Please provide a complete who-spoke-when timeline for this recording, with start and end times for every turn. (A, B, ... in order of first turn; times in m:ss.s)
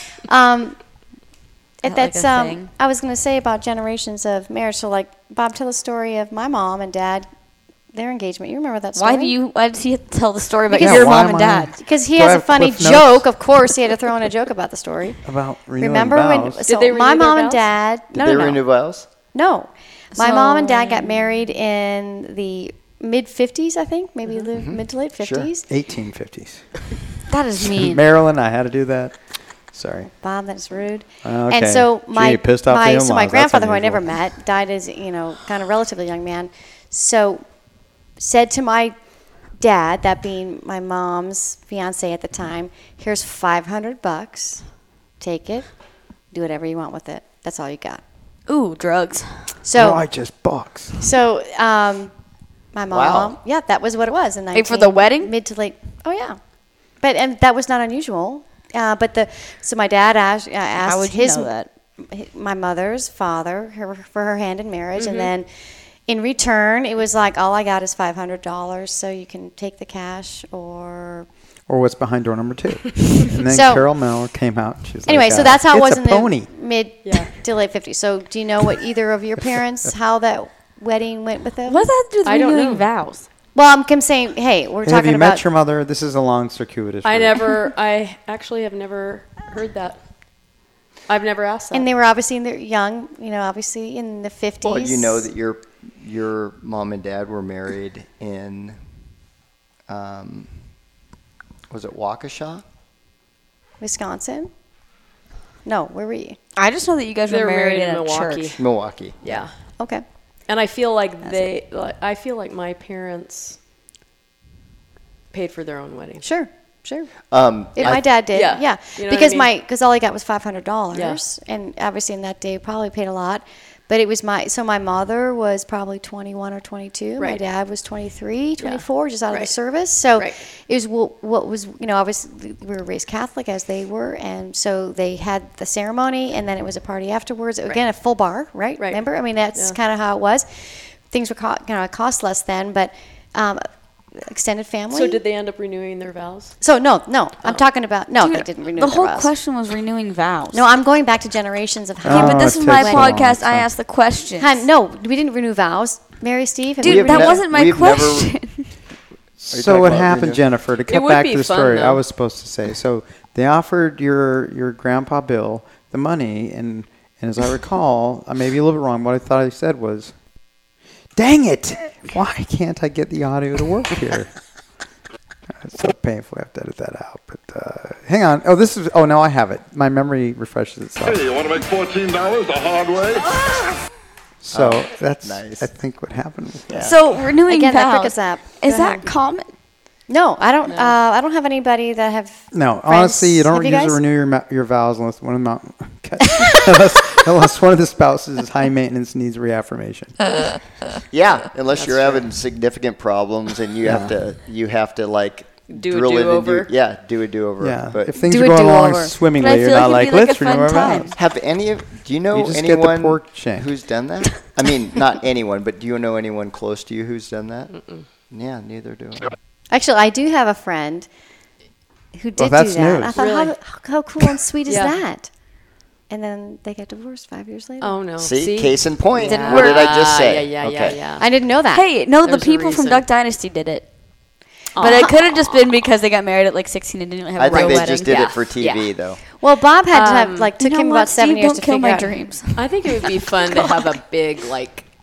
0:00.3-0:00.8 A
0:01.8-0:07.3 A
0:01.8-0:02.7 B
0:07.9-0:09.3 A
0:09.0-0:11.7 B
0:10.7-0:15.2 A
0:10.8-0:13.3 C
0:15.2-0:16.6 C
0:15.8-0:18.6 A
0:16.7-0:17.7 D
0:18.1-0:19.1 E
0:19.3-0:25.7 A
0:20.1-0:21.2 B
0:24.6-0:25.5 E
0:25.7-0:26.7 C
0:27.3-0:28.0 B
0:27.6-0:30.1 C
0:30.1-0:37.4 A
0:31.2-0:34.2 C
0:38.2-0:39.0 A
0:39.5-0:44.6 A
0:45.2-0:45.7 A
0:46.3-0:48.0 A
0:48.5-0:49.5 B
0:49.6-0:50.0 A
0:49.7-0:51.1 C
0:51.0-0:52.1 A
0:52.7-0:56.4 A
0:52.9-0:53.4 E
0:54.5-0:55.3 B
0:56.9-1:05.5 A
1:00.8-1:01.7 B
1:05.0-1:05.3 D
1:06.1-1:11.3 A
1:11.7-1:16.5 C
1:13.4-1:13.8 A
1:15.1-1:21.9 A
1:17.0-1:17.3 D
1:21.7-1:23.3 B
1:22.2-1:22.9 D
1:23.6-1:25.4 A
1:24.8-1:27.6 C
1:27.0-1:30.0 D
1:31.1-1:31.9 D
1:31.7-1:35.3 A
1:34.6-1:38.8 E
1:39.9-1:40.5 E
1:41.7-1:42.6 E
1:43.8-1:44.5 A
1:45.6-1:46.4 A
1:46.6-1:48.5 B
1:47.3-1:48.6 D
1:48.6-1:49.4 E
1:49.2-1:49.5 D
1:49.8-1:50.0 A
1:50.5-1:53.6 D
1:55.3-1:56.2 D
1:56.2-1:57.1 A
1:57.2-1:58.1 E
1:57.8-2:25.2 A
1:57.8-1:59.5 D
2:00.9-2:01.2 D
2:08.6-2:09.5 D
2:18.8-2:19.8 D
2:24.9-2:26.6 D
2:26.6-2:29.3 A
2:28.2-2:30.6 B
2:30.5-2:33.2 A
2:32.0-2:33.7 C
2:32.1-2:34.6 B
2:34.4-2:37.4 A
2:36.8-2:38.4 E
2:36.8-2:38.7 B
2:39.4-2:50.1 C
2:39.5-2:40.4 E
2:40.9-2:42.0 D
2:51.2-2:54.3 C
2:55.5-3:01.3 C
3:01.0-3:03.3 F
3:04.4-3:06.8 C
3:04.5-3:05.7 E
3:06.7-3:07.0 E
3:06.8-3:09.5 B
3:07.4-3:09.1 A
3:10.1-3:14.0 A
3:10.7-3:11.0 D
3:12.5-3:20.2 C
3:21.1-3:28.2 E
3:21.7-3:22.3 D
3:23.8-3:24.1 C
3:25.7-3:26.7 D
3:27.6-3:31.2 C
3:28.2-3:29.2 A
3:29.4-3:31.1 B
3:31.2-3:39.3 E
3:32.3-3:33.7 C
3:37.7-3:38.0 D
3:39.7-3:41.1 A
3:42.1-3:45.3 A
3:42.4-3:43.2 C
3:43.1-3:43.6 D
3:44.7-3:45.0 D
3:46.1-3:48.0 A
3:47.8-3:51.3 D
3:48.2-3:51.0 E
3:49.3-3:49.9 B
3:49.3-3:49.7 A
3:51.2-3:51.9 A
3:51.7-3:53.9 B
3:52.1-3:53.0 D
3:54.7-3:55.6 D
3:54.8-3:58.2 B
3:57.4-3:59.2 E
3:57.5-3:58.9 D
3:59.3-4:02.3 A
3:59.9-4:00.5 D
4:00.6-4:03.0 B
4:02.6-4:04.9 D